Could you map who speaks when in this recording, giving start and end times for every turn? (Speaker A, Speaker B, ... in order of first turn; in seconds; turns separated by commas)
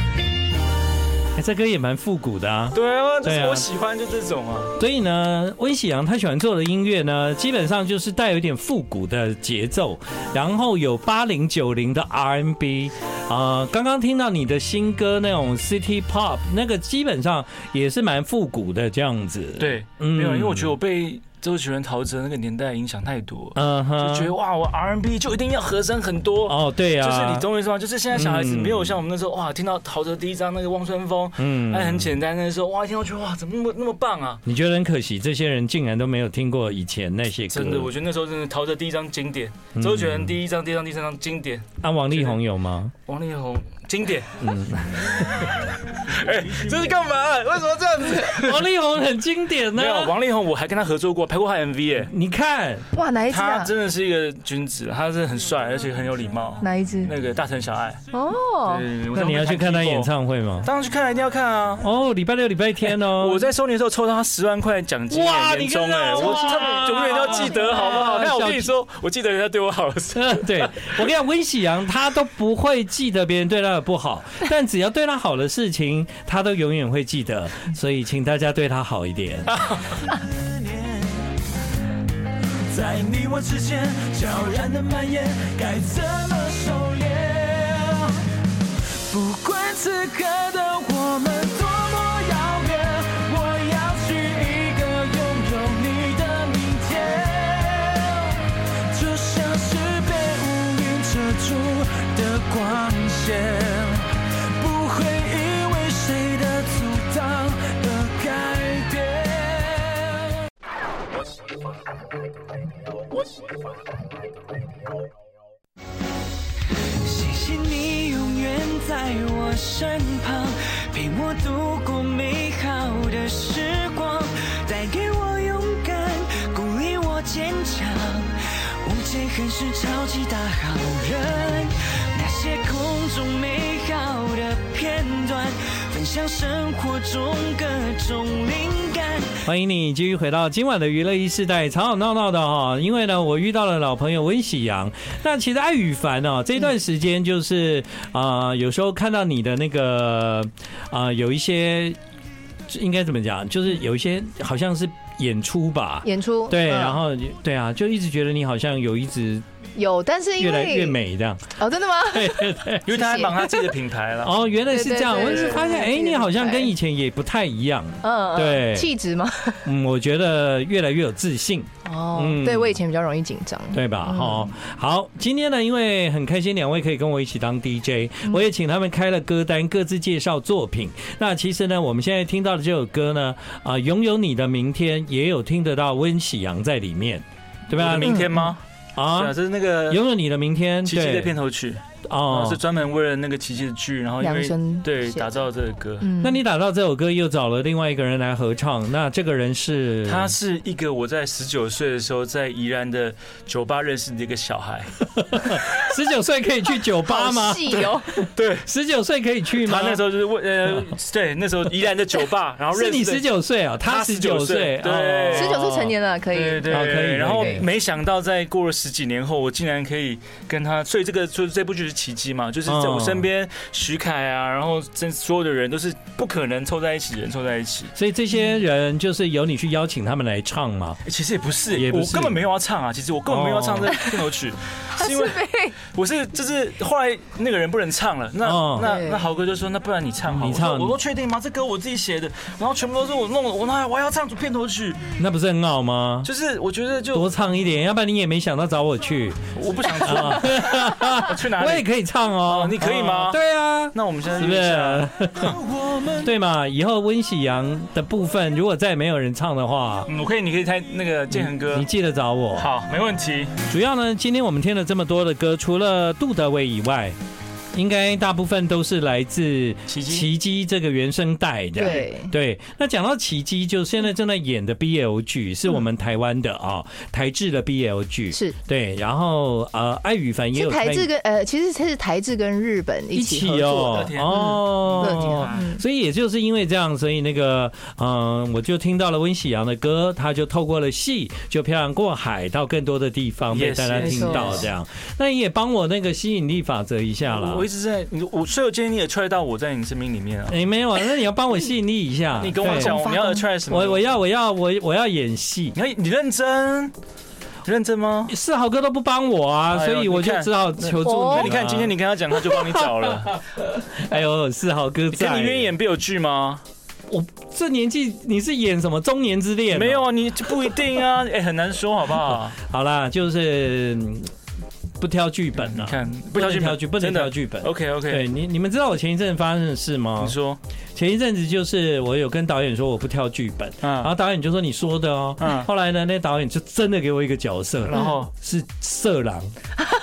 Speaker A: 1.3-3.6, Speaker B: 2.7-4.8, Speaker A: 4.8-20.7, Speaker B: 19.6-34.4, Speaker A: 23.5-24.3, Speaker A: 26.5-27.4, Speaker A: 28.1-29.0, Speaker A: 31.4-32.1, Speaker A: 34.5-37.9, Speaker B: 37.5-42.4, Speaker A: 39.8-40.3, Speaker A: 41.8-42.9, Speaker B: 43.0-44.5, Speaker A: 44.4-45.6, Speaker B: 45.1-48.6, Speaker A: 48.3-50.1, Speaker B: 49.7-52.1, Speaker A: 52.1-52.9, Speaker C: 52.9-53.7, Speaker B: 53.3-58.0, Speaker C: 56.6-57.1, Speaker C: 58.1-58.9, Speaker B: 58.6-61.9, Speaker A: 59.1-60.7, Speaker A: 61.8-63.5, Speaker B: 62.8-71.0, Speaker A: 65.1-68.7, Speaker C: 66.4-67.6, Speaker A: 70.1-79.5, Speaker B: 79.5-80.1, Speaker D: 80.3-80.9, Speaker D: 82.7-88.3, Speaker D: 88.8-110.3, Speaker D: 117.0-139.4, Speaker A: 139.4-152.0, Speaker A: 152.7-159.4, Speaker C: 156.0-157.0, Speaker C: 159.8-161.0, Speaker A: 160.4-163.0, Speaker C: 161.6-163.5, Speaker B: 162.8-164.5, Speaker A: 164.2-168.9, Speaker C: 164.7-166.7, Speaker B: 165.2-165.8, Speaker C: 168.0-169.7, Speaker A: 169.6-172.8, Speaker C: 171.8-174.5, Speaker A: 173.7-188.3, Speaker B: 187.7-190.1, Speaker C: 188.0-188.5, Speaker A: 188.9-191.4, Speaker B: 190.8-196.1, Speaker A: 192.0-192.6, Speaker C: 194.2-195.3, Speaker C: 196.0-196.4, Speaker A: 196.2-200.3, Speaker B: 200.0-204.9, Speaker A: 205.1-210.0, Speaker C: 207.0-208.1, Speaker B: 208.3-208.7, Speaker B: 209.5-215.6, Speaker A: 212.7-215.9, Speaker C: 215.3-217.6, Speaker B: 216.3-227.9, Speaker A: 216.6-217.7, Speaker A: 222.7-223.2, Speaker A: 227.9-231.0, Speaker B: 231.0-245.1, Speaker A: 231.7-232.4, Speaker A: 233.3-234.0, Speaker C: 234.9-235.8, Speaker A: 238.4-239.0, Speaker C: 238.8-239.2, Speaker A: 240.3-241.0, Speaker A: 245.2-246.3, Speaker B: 246.2-247.3, Speaker A: 247.1-249.4, Speaker B: 249.5-251.9, Speaker A: 250.0-255.6, Speaker B: 252.4-253.4, Speaker B: 253.9-256.2, Speaker A: 256.2-260.1, Speaker B: 260.1-261.9, Speaker A: 261.3-262.7, Speaker B: 262.5-263.6, Speaker A: 263.7-267.2, Speaker A: 267.7-281.1, Speaker B: 269.9-270.3, Speaker C: 271.8-272.3, Speaker C: 278.3-278.6, Speaker C: 280.5-285.8, Speaker A: 283.1-297.6, Speaker B: 283.8-285.7, Speaker B: 293.5-294.6, Speaker C: 294.0-294.6, Speaker B: 297.2-300.6, Speaker A: 300.5-303.0, Speaker B: 302.4-304.1, Speaker C: 302.6-303.4, Speaker A: 303.7-305.8, Speaker B: 305.7-306.9, Speaker B: 307.6-308.3, Speaker A: 308.3-315.7, Speaker B: 309.7-313.4, Speaker C: 311.0-311.5, Speaker B: 315.1-316.6, Speaker A: 317.1-320.1, Speaker B: 319.7-322.6, Speaker A: 322.3-324.3, Speaker A: 325.0-330.3, Speaker B: 325.5-328.3, Speaker B: 330.2-330.6, Speaker A: 330.9-339.5, Speaker B: 333.8-334.1, Speaker B: 335.4-335.7, Speaker B: 337.8-338.3